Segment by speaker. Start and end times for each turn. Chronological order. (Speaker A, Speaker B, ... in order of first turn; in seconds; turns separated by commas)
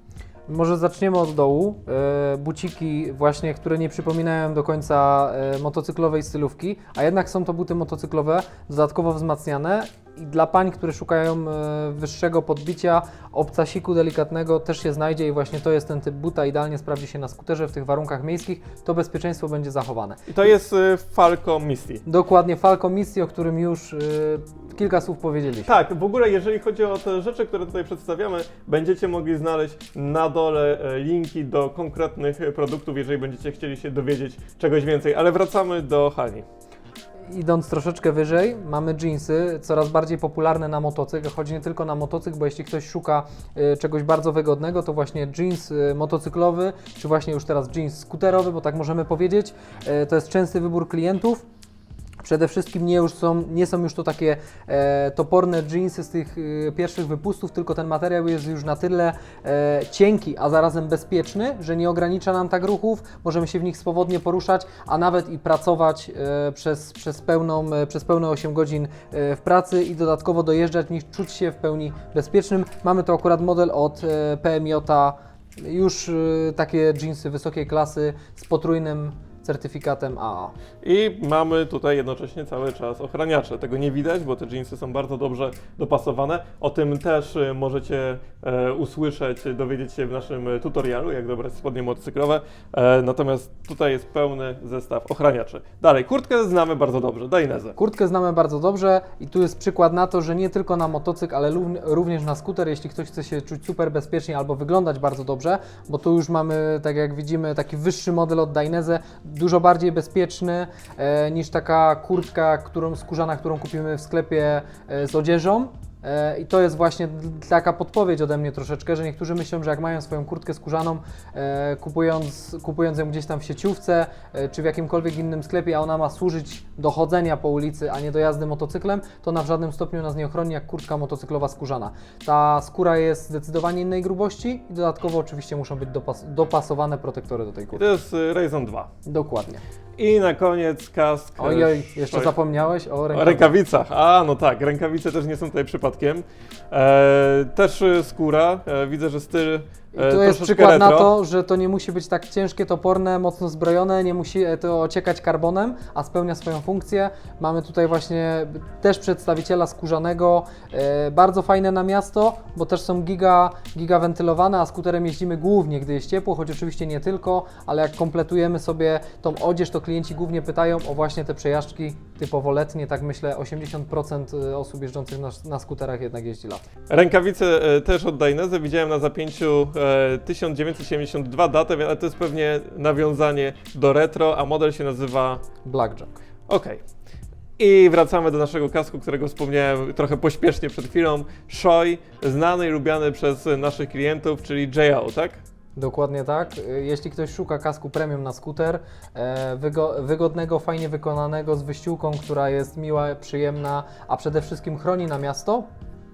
Speaker A: 0.5-20.3, Speaker B: 20.3-22.0, Speaker A: 22.1-25.8, Speaker B: 25.7-36.5, Speaker A: 37.3-51.5, Speaker A: 52.2-80.5, Speaker B: 80.8-97.8, Speaker A: 97.8-137.8, Speaker B: 137.8-138.9, Speaker A: 139.1-139.6, Speaker B: 140.0-142.3, Speaker A: 141.4-143.5, Speaker B: 143.1-151.1, Speaker A: 149.9-176.7, Speaker B: 176.9-185.4, Speaker A: 185.7-186.1, Speaker B: 186.5-186.8, Speaker B: 187.6-195.4, Speaker A: 195.8-205.7